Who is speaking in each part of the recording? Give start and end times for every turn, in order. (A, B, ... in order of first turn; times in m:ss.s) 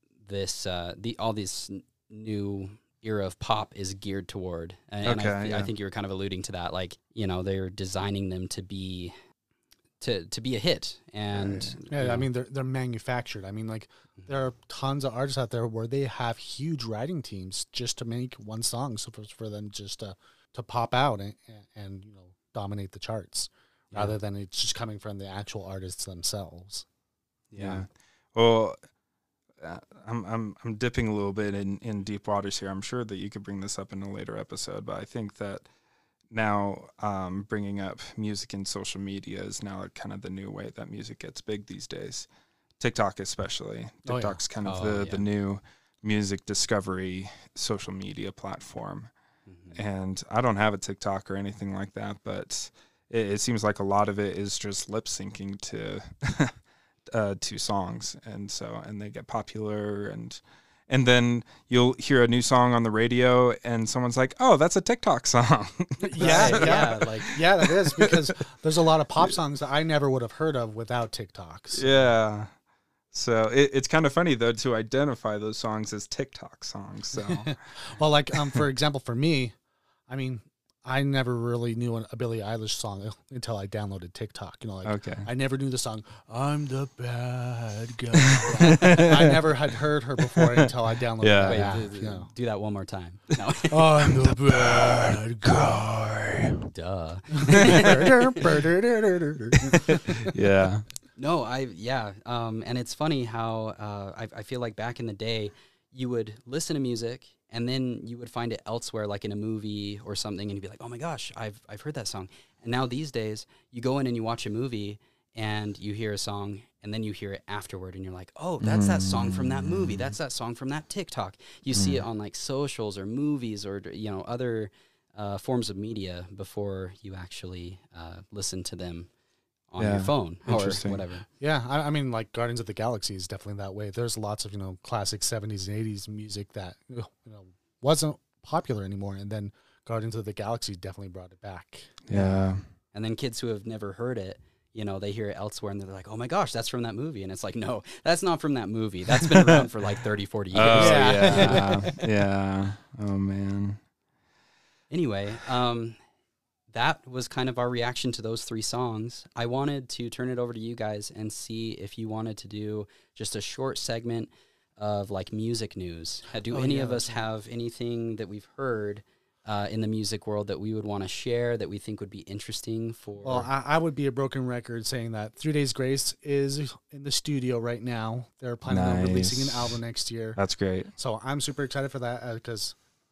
0:00.2-0:09.1 A
0:05.0-0:05.7 B
0:10.0-0:12.3 A
0:11.3-0:11.8 B
0:11.9-0:26.8 C
0:27.5-0:27.8 A
0:27.6-0:28.8 B
0:29.6-0:35.6 B
0:36.3-0:42.3 B
0:42.8-0:49.1 B
0:44.0-0:44.4 C
0:44.6-0:45.2 A
0:49.4-0:49.8 A
0:49.7-0:56.5 B
0:57.1-1:08.3 B
1:06.1-1:11.9 C
1:06.2-1:07.3 A
1:11.7-1:12.5 B
1:13.1-1:17.5 B
1:17.3-1:19.5 C
1:20.1-1:32.3 C
1:24.8-1:25.3 B
1:28.2-1:29.4 B
1:30.3-1:31.8 B
1:31.4-1:33.9 A
1:33.7-1:35.8 C
1:34.0-1:36.6 B
1:36.7-1:38.2 A
1:37.5-1:40.3 C
1:37.6-1:37.9 B
1:40.2-1:40.8 B
1:41.2-2:09.1 A
1:58.6-2:00.0 B
2:01.7-2:02.0 B
2:09.7-2:11.2 A
2:09.8-2:11.0 B
2:11.4-2:22.3 C
2:22.1-2:22.6 B
2:22.9-2:31.9 A
2:30.5-2:33.8 B
2:30.7-2:31.9 C
2:34.9-2:36.0 A
2:36.7-2:53.5 A
2:46.5-2:47.2 C
2:53.2-3:00.4 C
2:58.6-2:59.8 B
3:00.4-3:00.9 B
3:01.0-3:02.8 C